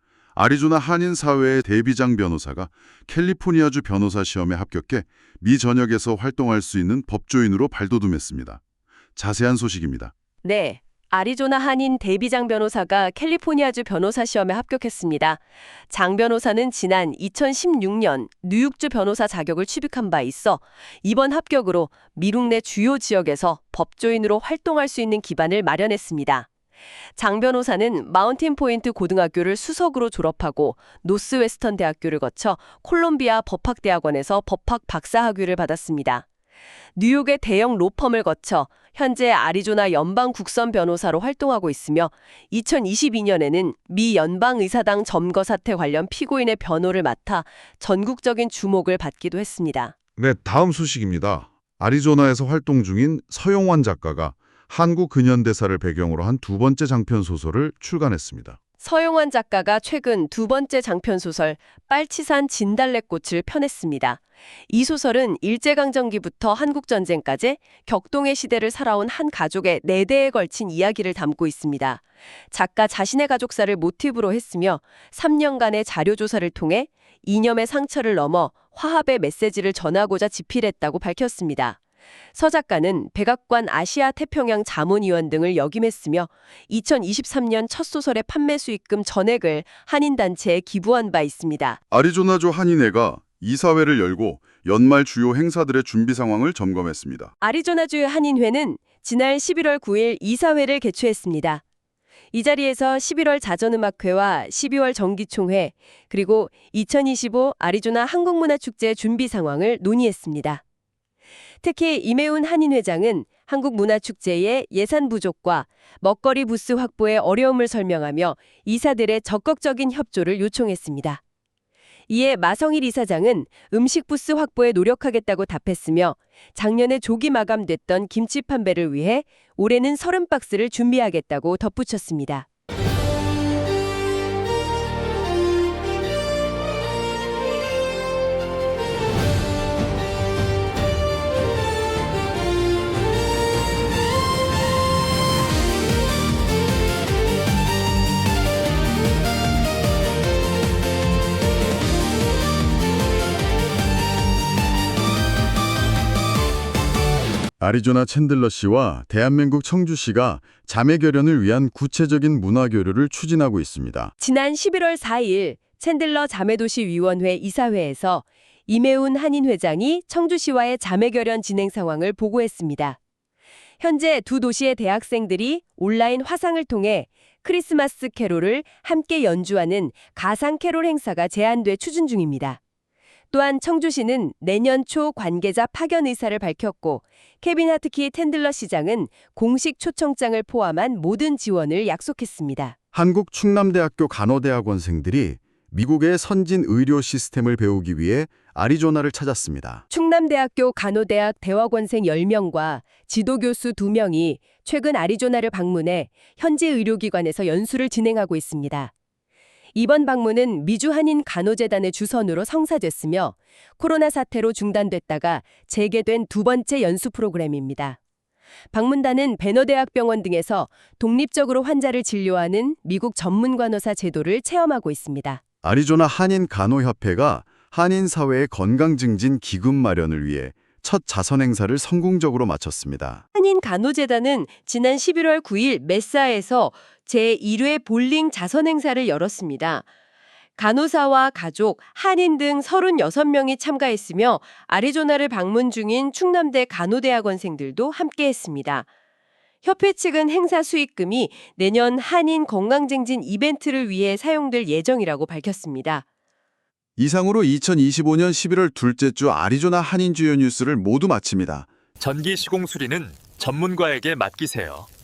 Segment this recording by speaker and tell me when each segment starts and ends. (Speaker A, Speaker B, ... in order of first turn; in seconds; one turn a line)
Speaker A: 0.3-8.6
Speaker A: 9.2-10.1
Speaker B: 10.4-26.5
Speaker B: 27.1-36.2
Speaker B: 36.9-50.0
Speaker A: 50.2-58.6
Speaker B: 58.8-81.8
Speaker B: 82.3-91.8
Speaker A: 91.9-97.3
Speaker B: 97.4-101.6
Speaker B: 102.3-110.6
Speaker B: 111.6-121.2
Speaker B: 122.1-132.4
Speaker A: 157.6-164.1
Speaker B: 164.2-173.0
Speaker B: 173.8-182.6
Speaker B: 183.3-192.8
Speaker A: 192.9-199.8
Speaker B: 199.9-208.9
Speaker B: 209.7-218.0
Speaker B: 218.7-225.4
Speaker A: 225.6-233.2
Speaker B: 233.3-239.8
Speaker B: 240.6-248.9
Speaker B: 249.6-256.0
Speaker A: 257.0-261.7
Speaker C: 262.0-264.9